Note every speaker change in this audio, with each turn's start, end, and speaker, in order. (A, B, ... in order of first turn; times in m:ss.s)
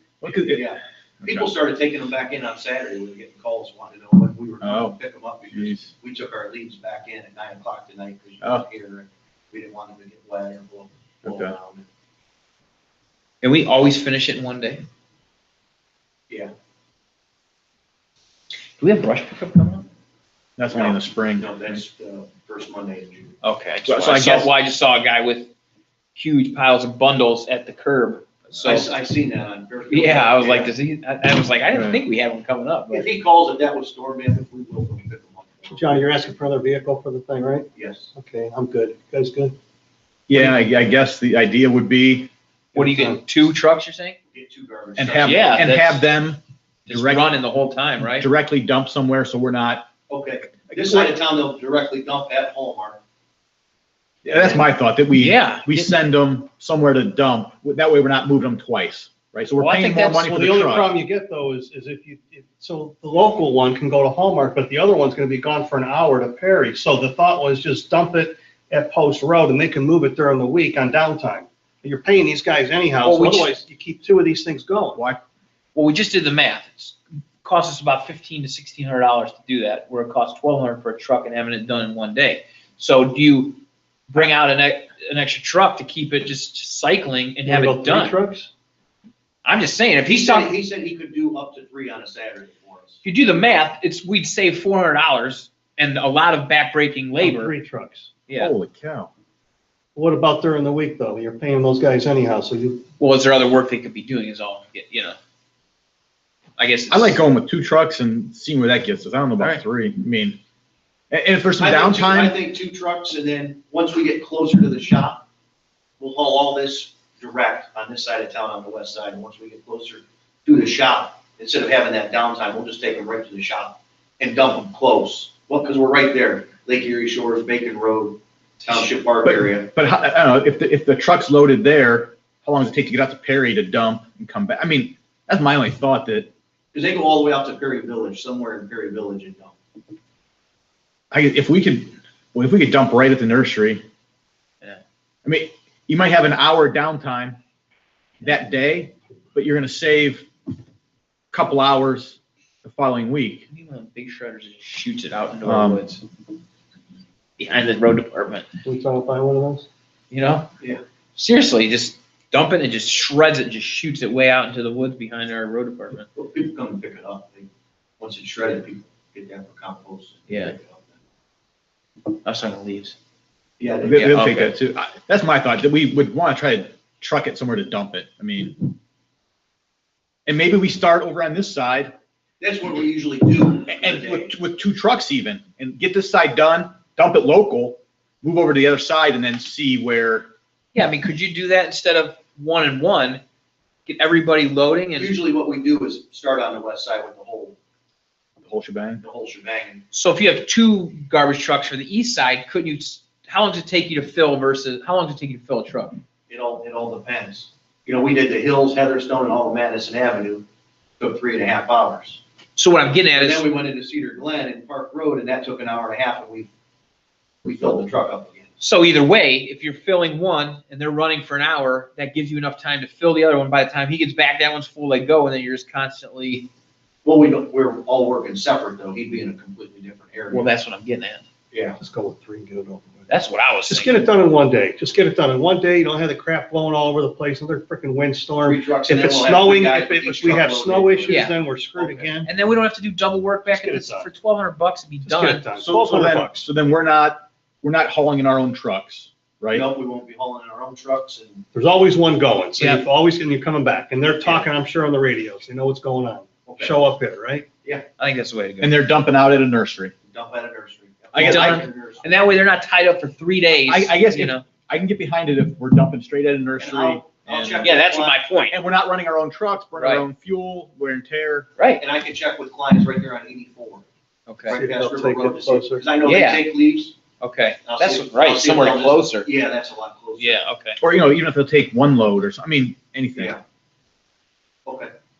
0:00.2-0:01.5 A
0:00.3-0:11.8 B
0:04.6-0:05.0 A
0:05.5-0:05.9 A
0:11.2-0:11.6 A
0:13.4-0:14.8 C
0:18.8-0:19.9 C
0:20.6-0:21.8 A
0:20.7-0:23.4 B
0:23.4-0:25.5 C
0:23.9-0:24.5 A
0:26.2-0:28.9 C
0:28.6-0:30.7 B
0:29.9-0:33.1 C
0:31.7-0:32.0 A
0:32.9-0:36.1 B
0:35.7-0:39.6 D
0:37.7-0:38.1 B
0:40.3-0:42.3 A
0:42.7-0:43.2 D
0:42.7-0:44.2 C
0:44.3-0:45.7 B
0:45.0-0:47.3 A
0:45.2-0:46.0 C
0:46.9-0:48.3 C
0:48.2-0:49.9 A
0:50.1-0:53.0 B
0:50.6-0:51.1 A
0:54.2-1:00.9 A
0:55.1-0:55.9 C
0:59.6-1:00.2 C
1:00.2-1:15.0 D
1:13.0-1:13.5 C
1:15.0-1:15.2 A
1:15.8-1:23.6 C
1:24.1-1:28.2 C
1:27.4-1:28.5 D
1:29.4-1:30.5 C
1:30.1-1:33.0 B
1:33.0-1:37.6 C
1:37.2-1:38.1 D
1:38.4-1:39.1 A
1:40.0-1:42.8 D
1:43.0-1:45.2 C
1:46.6-1:47.2 C
1:46.9-1:50.4 A
1:51.1-1:52.3 A
1:51.6-1:55.2 B
1:56.0-2:09.7 B
2:09.2-2:16.3 A
2:16.7-2:19.6 B
2:21.1-2:23.8 A
2:25.2-2:27.4 A
2:28.2-2:30.3 A
2:31.3-2:33.5 A
2:33.5-2:36.0 C
2:35.4-2:35.8 A
2:37.4-2:38.5 C
2:38.6-2:39.7 D
2:40.1-2:40.5 C
2:41.2-2:46.1 C
2:46.1-2:47.5 B
2:48.0-2:50.8 B
2:50.3-2:50.6 C
2:52.2-2:52.9 C
2:53.6-2:54.2 B
2:53.8-2:58.7 A
2:54.1-2:54.5 C
3:00.2-3:01.9 A
3:02.4-3:04.4 B
3:03.7-3:10.3 A
3:10.7-3:13.2 C
3:13.9-3:15.2 C
3:15.0-3:17.6 B
3:18.4-3:19.0 A
3:19.0-3:19.8 B
3:19.9-3:26.0 C
3:26.3-3:30.4 B
3:31.0-3:32.2 B
3:32.6-3:33.5 C
3:33.2-3:36.5 B
3:37.4-3:38.5 B
3:38.6-3:46.5 C
3:47.0-3:50.5 B
3:50.3-3:51.2 C
3:51.5-3:51.8 B
3:51.8-3:53.1 D
3:53.1-3:54.1 C
3:53.6-4:02.3 D
3:58.4-4:02.1 B
4:01.1-4:01.4 C
4:02.2-4:05.5 C
4:03.5-4:04.1 D
4:05.1-4:06.5 D
4:05.6-4:09.7 A
4:09.5-4:11.4 B
4:11.5-4:17.4 D
4:12.6-4:12.8 C
4:14.2-4:14.5 B
4:16.4-4:16.8 B
4:18.0-4:18.8 C
4:18.6-4:19.9 A
4:20.1-4:22.1 B
4:21.1-4:21.6 A
4:21.2-4:24.4 C
4:23.7-4:27.7 A
4:26.6-4:28.2 B
4:27.6-4:28.6 C
4:28.5-4:31.5 A
4:29.8-4:30.0 C
4:31.6-4:31.8 C
4:31.8-4:33.8 B
4:34.3-4:34.6 C
4:34.4-4:36.9 B
4:34.5-4:35.9 D
4:36.0-4:36.5 C
4:37.2-4:39.3 C
4:37.7-4:40.4 B
4:40.2-4:40.8 C
4:40.8-4:43.4 A
4:43.2-4:43.4 B
4:44.7-4:44.9 B